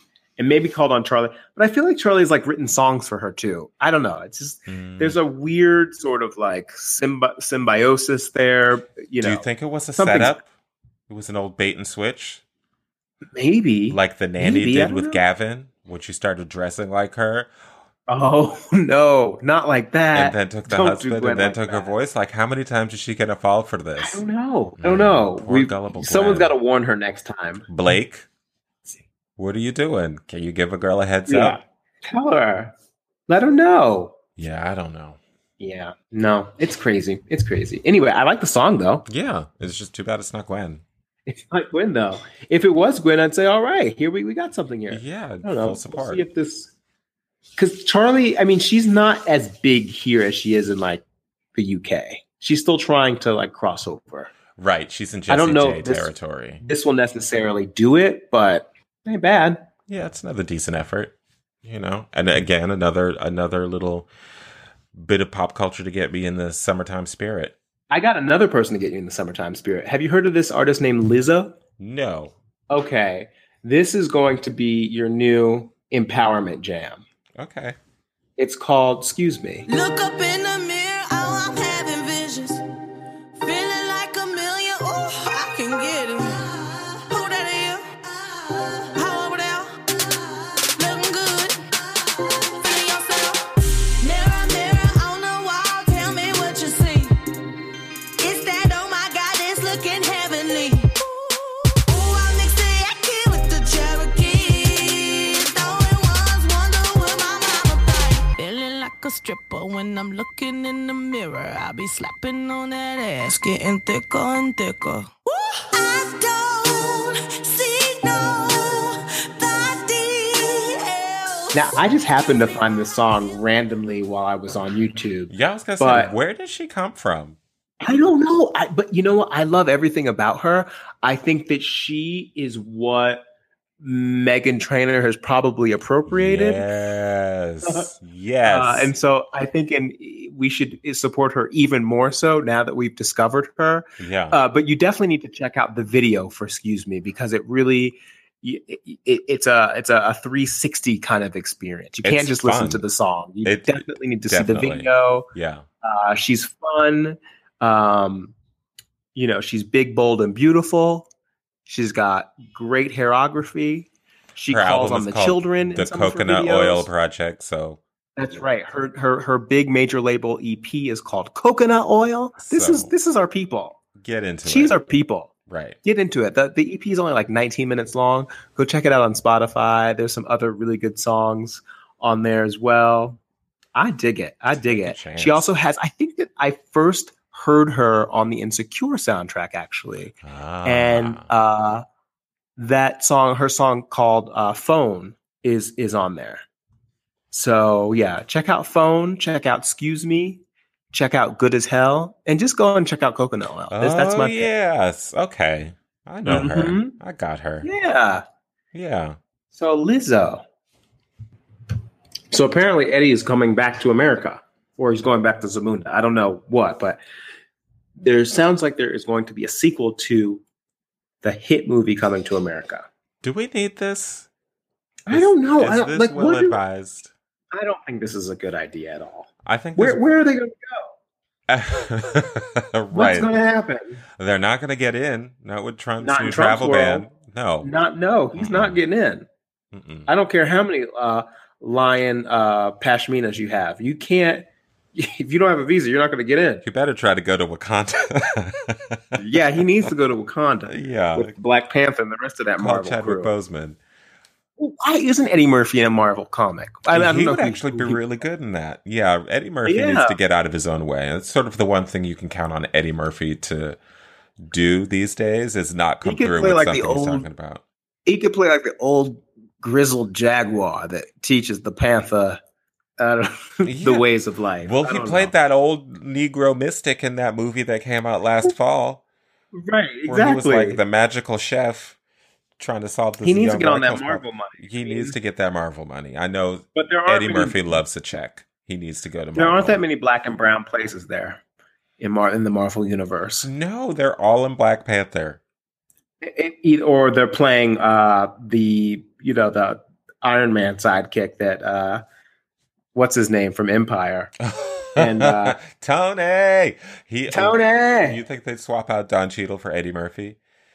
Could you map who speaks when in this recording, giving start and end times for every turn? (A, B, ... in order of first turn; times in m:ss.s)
0:00.4-0:09.4 A
0:04.7-0:05.2 B
0:09.2-0:10.4 B
0:10.0-0:10.4 A
0:11.1-0:12.4 B
0:13.3-0:15.2 A
0:13.9-0:17.5 B
0:18.1-0:21.9 A
0:20.1-0:24.2 B
0:24.0-0:27.6 A
0:24.8-0:26.5 B
0:27.7-0:28.3 B
0:29.4-0:31.6 B
0:31.3-0:32.7 A
0:33.3-0:34.2 A
0:34.4-0:35.2 B
0:35.6-0:39.0 A
0:39.1-0:40.8 B
0:41.2-0:46.7 A
0:44.9-0:46.2 B
0:47.6-0:51.0 A
0:51.5-0:54.3 A
0:54.6-0:56.6 B
0:55.3-0:59.6 A
0:59.9-1:04.1 B
1:04.9-1:07.6 B
1:07.9-1:11.6 A
1:11.8-1:12.3 B
1:12.7-1:17.0 A
1:17.4-1:17.8 B
1:18.4-1:19.6 A
1:19.7-1:22.6 C
1:23.4-1:37.2 C
1:38.2-2:01.6 C
2:01.5-2:06.1 A
2:05.3-2:07.4 B
2:07.8-2:13.2 A
2:13.8-2:16.6 A
2:16.1-2:18.9 B
2:17.6-2:17.9 A
2:18.5-2:35.3 A
2:24.0-2:24.4 B
2:32.0-2:32.8 B
2:33.4-2:35.6 B
2:35.8-2:38.3 A
2:39.1-2:41.1 A
2:41.6-2:46.9 A
2:44.5-2:47.8 B
2:48.2-2:53.8 A
2:52.4-2:52.9 B
2:54.0-2:54.8 B
2:54.4-2:55.3 A
2:55.5-2:55.8 B
2:55.8-3:03.2 A
3:03.7-3:11.8 A
3:04.6-3:05.5 B
3:10.2-3:11.3 B
3:12.6-3:16.4 A
3:17.3-3:24.5 A
3:23.7-3:27.7 B
3:26.2-3:26.9 A
3:27.6-3:28.2 A
3:28.7-3:29.2 B
3:29.5-3:30.4 A
3:32.3-3:37.0 A
3:38.0-3:40.4 A
3:41.2-3:42.8 A
3:43.2-3:44.3 B
3:45.1-3:46.6 A
3:45.1-3:47.1 B
3:47.5-3:50.9 A
3:49.4-3:50.0 B
3:51.5-3:53.3 B
3:52.9-3:54.0 A
3:54.2-3:57.7 B
3:56.0-3:57.1 A
3:57.6-3:59.2 A
3:58.4-3:58.8 B
3:59.7-4:00.1 B
4:00.1-4:06.6 A
4:06.6-4:09.2 B
4:09.2-4:13.3 A
4:10.7-4:11.3 B
4:12.6-4:13.8 B
4:14.6-4:18.0 A
4:16.9-4:23.8 B
4:19.6-4:20.2 A
4:24.4-4:27.6 B
4:26.0-4:27.3 A
4:28.0-4:32.4 A
4:33.0-4:35.3 A
4:33.6-4:34.1 B
4:34.6-4:39.0 B
4:39.5-4:40.8 A
4:40.1-4:42.0 B
4:42.6-4:49.8 B
4:43.2-4:45.1 A
4:46.7-4:47.6 A
4:49.4-4:51.4 A
4:52.0-4:53.5 A
4:53.4-4:55.4 B
4:56.2-5:02.0 A
5:02.9-5:04.3 A
5:04.4-5:10.4 B
5:05.0-5:05.6 A
5:07.3-5:08.2 A